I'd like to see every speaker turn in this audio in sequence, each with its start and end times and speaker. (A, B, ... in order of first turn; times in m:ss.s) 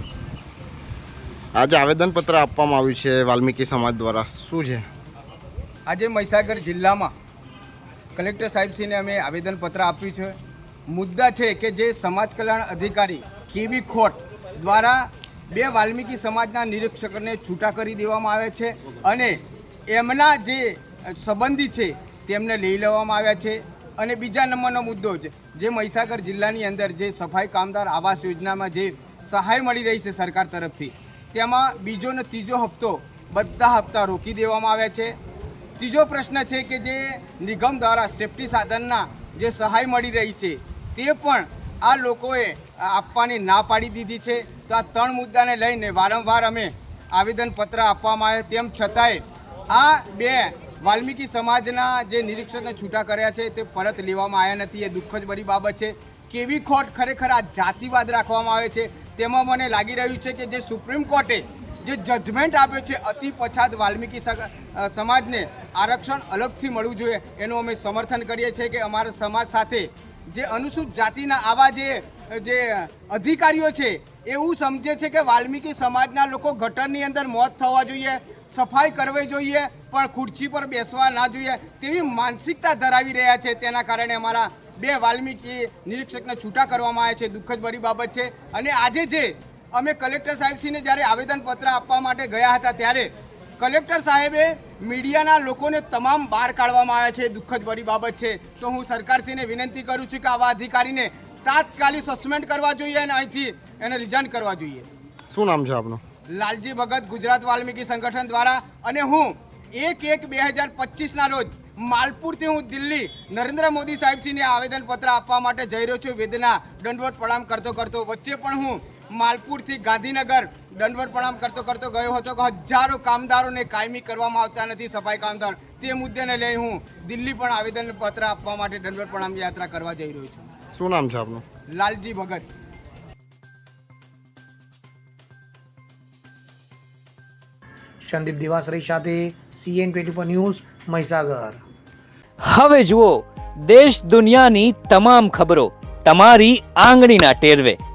0:01.6-0:04.9 A
0:05.9-0:07.1 B
0:08.2-0:10.4 B
0:10.9-0:35.1 B
0:35.8-1:44.9 B
1:45.3-1:46.0 A
1:46.3-2:10.4 B
2:10.7-2:11.4 A
2:11.7-2:12.5 B
2:18.1-2:21.6 C
2:22.5-2:27.8 D